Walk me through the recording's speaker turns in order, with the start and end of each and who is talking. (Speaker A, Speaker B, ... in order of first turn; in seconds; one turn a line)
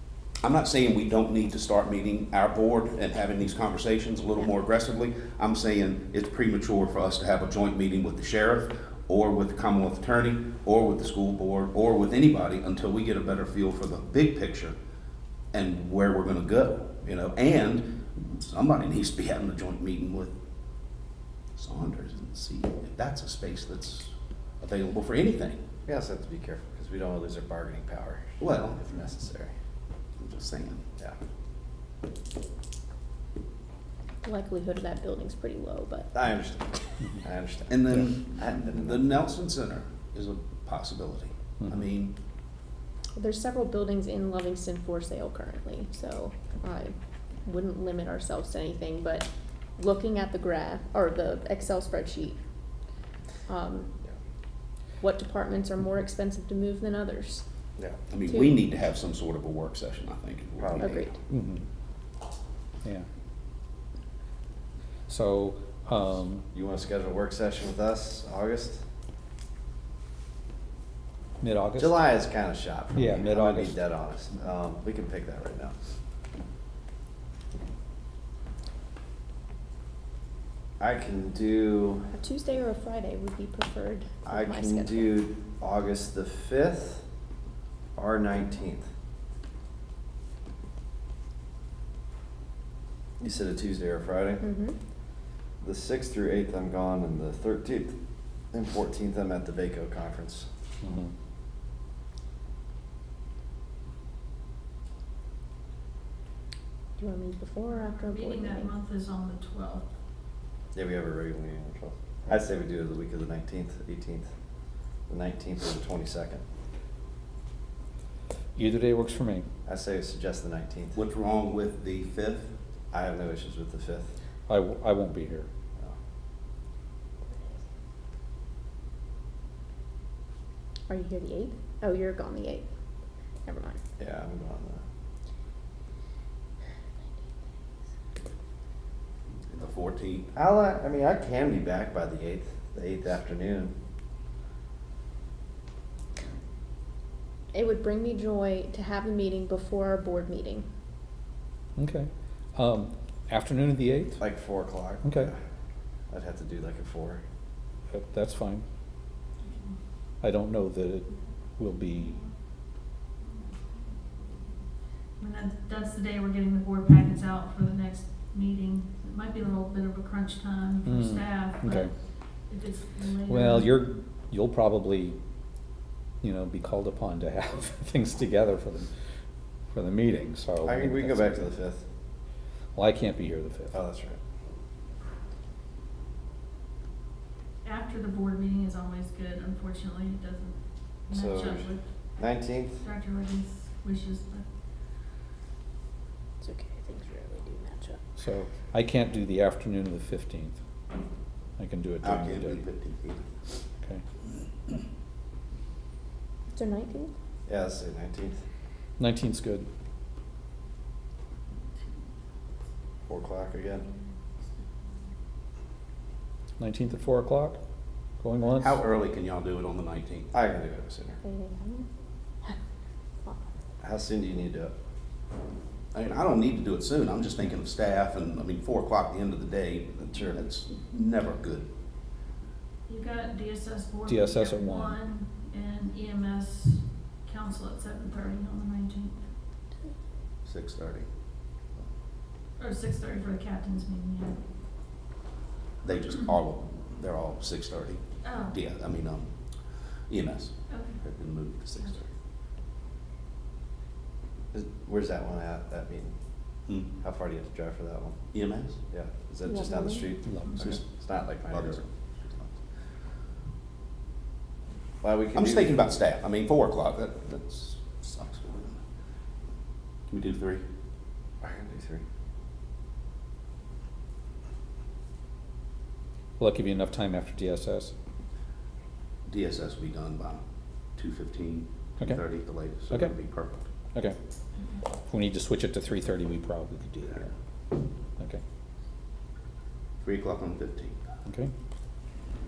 Speaker A: 0.4-14.8
Speaker A: 15.5-20.4
Speaker A: 21.6-25.6
Speaker B: 25.9-29.5
Speaker A: 28.4-28.8
Speaker A: 30.2-30.8
Speaker C: 34.2-36.1
Speaker B: 36.1-39.1
Speaker A: 37.7-42.1
Speaker C: 43.2-52.4
Speaker C: 53.5-53.9
Speaker C: 55.0-57.5
Speaker A: 58.1-61.1
Speaker B: 60.6-61.1
Speaker C: 60.8-61.2
Speaker D: 61.3-61.6
Speaker D: 65.1-66.4
Speaker B: 66.5-68.8
Speaker D: 71.4-72.0
Speaker B: 71.8-75.7
Speaker D: 72.9-73.8
Speaker B: 80.8-82.1
Speaker C: 82.1-85.2
Speaker B: 84.3-87.0
Speaker B: 88.0-88.8
Speaker B: 93.2-94.5
Speaker C: 94.4-94.8
Speaker B: 95.6-98.0
Speaker B: 98.5-100.5
Speaker D: 100.8-101.1
Speaker C: 107.0-108.7
Speaker E: 107.7-109.9
Speaker B: 110.7-114.3
Speaker B: 115.1-116.4
Speaker D: 118.6-119.5
Speaker B: 119.7-121.0
Speaker A: 121.0-122.5
Speaker B: 122.9-124.1
Speaker D: 124.5-125.5
Speaker C: 130.9-132.7
Speaker C: 133.4-133.8
Speaker B: 134.0-134.8
Speaker C: 137.0-137.3
Speaker A: 139.5-140.3
Speaker B: 140.3-143.7
Speaker C: 147.5-150.7
Speaker D: 151.8-154.2
Speaker B: 154.2-155.3
Speaker D: 155.0-155.3
Speaker B: 156.1-157.2
Speaker D: 157.9-158.6
Speaker E: 159.4-159.8
Speaker D: 160.2-162.2
Speaker E: 165.2-171.9
Speaker D: 170.8-171.9
Speaker E: 172.5-173.8
Speaker D: 173.3-175.2
Speaker D: 176.2-178.9
Speaker D: 179.7-181.5
Speaker B: 180.6-181.8
Speaker D: 182.8-183.7
Speaker B: 183.7-184.2
Speaker E: 187.6-190.6
Speaker E: 191.1-191.8
Speaker B: 191.1-192.8
Speaker E: 192.8-194.4
Speaker C: 196.4-198.0
Speaker D: 198.2-200.6
Speaker D: 201.6-202.6
Speaker A: 202.0-203.2
Speaker C: 206.5-207.1
Speaker B: 207.5-208.4
Speaker D: 209.0-209.7
Speaker B: 213.1-213.9
Speaker D: 216.6-217.6
Speaker D: 218.2-218.8
Speaker A: 218.6-220.3
Speaker B: 220.3-221.2
Speaker C: 221.2-221.9
Speaker B: 223.8-224.7
Speaker A: 225.9-231.7
Speaker B: 230.1-230.4
Speaker E: 232.9-239.2
Speaker D: 234.1-235.0
Speaker A: 240.4-241.1
Speaker E: 242.6-244.4
Speaker A: 245.8-248.0
Speaker E: 248.2-248.6
Speaker A: 248.5-249.3
Speaker A: 250.1-252.1
Speaker E: 250.7-251.0
Speaker B: 254.5-256.1
Speaker B: 257.0-258.2
Speaker A: 258.3-258.8
Speaker B: 258.9-261.8
Speaker C: 259.4-260.1
Speaker D: 260.3-260.6
Speaker A: 261.5-262.6
Speaker B: 265.0-265.8
Speaker A: 265.4-268.8
Speaker A: 270.1-270.6
Speaker B: 271.4-272.0
Speaker D: 276.4-277.9
Speaker A: 279.3-280.4
Speaker A: 281.0-283.7
Speaker D: 282.9-283.2
Speaker D: 285.1-287.3
Speaker A: 290.0-291.0